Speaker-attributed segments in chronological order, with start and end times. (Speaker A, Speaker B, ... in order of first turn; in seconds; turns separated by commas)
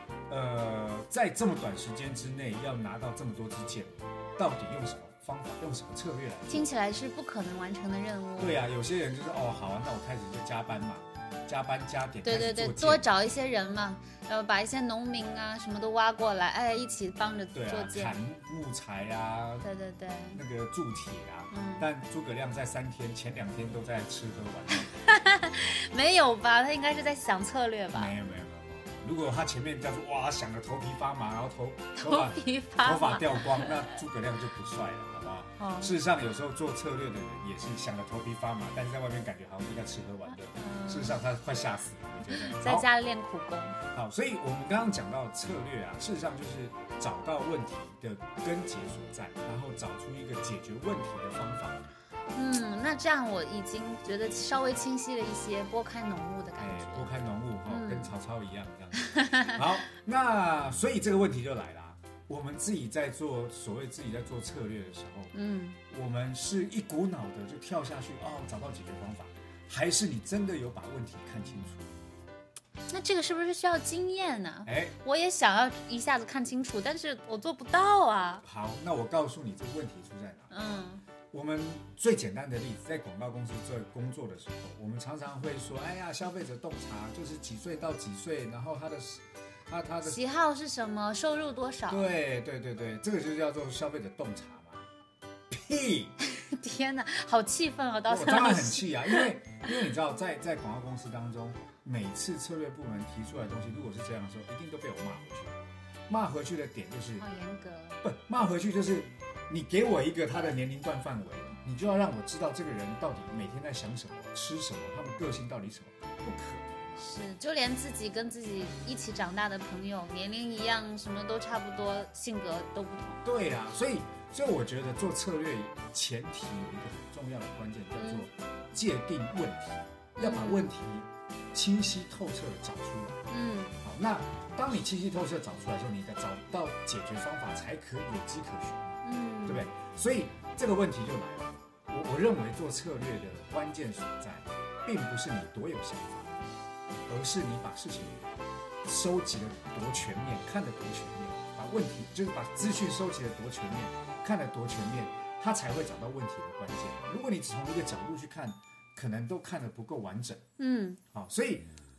Speaker A: 0.3-6.7, Speaker B: 6.5-8.6, Speaker A: 8.4-13.1, Speaker B: 12.2-18.2, Speaker A: 17.5-19.7, Speaker B: 19.6-20.4, Speaker A: 20.3-25.8, Speaker B: 21.5-21.9, Speaker B: 24.7-28.1, Speaker A: 27.9-42.9, Speaker B: 31.9-33.9, Speaker B: 35.6-35.9, Speaker B: 40.5-41.2, Speaker B: 42.3-43.8, Speaker A: 43.9-51.8, Speaker B: 52.3-57.1, Speaker A: 56.6-65.3, Speaker B: 57.7-58.1, Speaker B: 59.0-59.6, Speaker B: 65.3-65.8, Speaker A: 65.9-71.9, Speaker B: 72.9-78.4, Speaker A: 74.7-75.0, Speaker A: 78.4-80.5, Speaker B: 80.5-81.0, Speaker A: 81.3-90.2, Speaker B: 90.0-92.1, Speaker A: 91.9-94.9, Speaker A: 95.5-96.2, Speaker B: 96.2-99.3, Speaker A: 98.1-105.6, Speaker A: 106.1-107.2, Speaker B: 107.2-108.0, Speaker A: 108.0-117.0, Speaker B: 117.0-123.2, Speaker A: 123.2-133.2, Speaker B: 128.0-128.2, Speaker B: 130.2-130.7, Speaker B: 133.3-133.8, Speaker A: 133.8-146.4, Speaker B: 139.0-139.7, Speaker A: 147.1-148.3, Speaker A: 148.8-160.4, Speaker B: 160.6-161.0, Speaker A: 161.1-161.7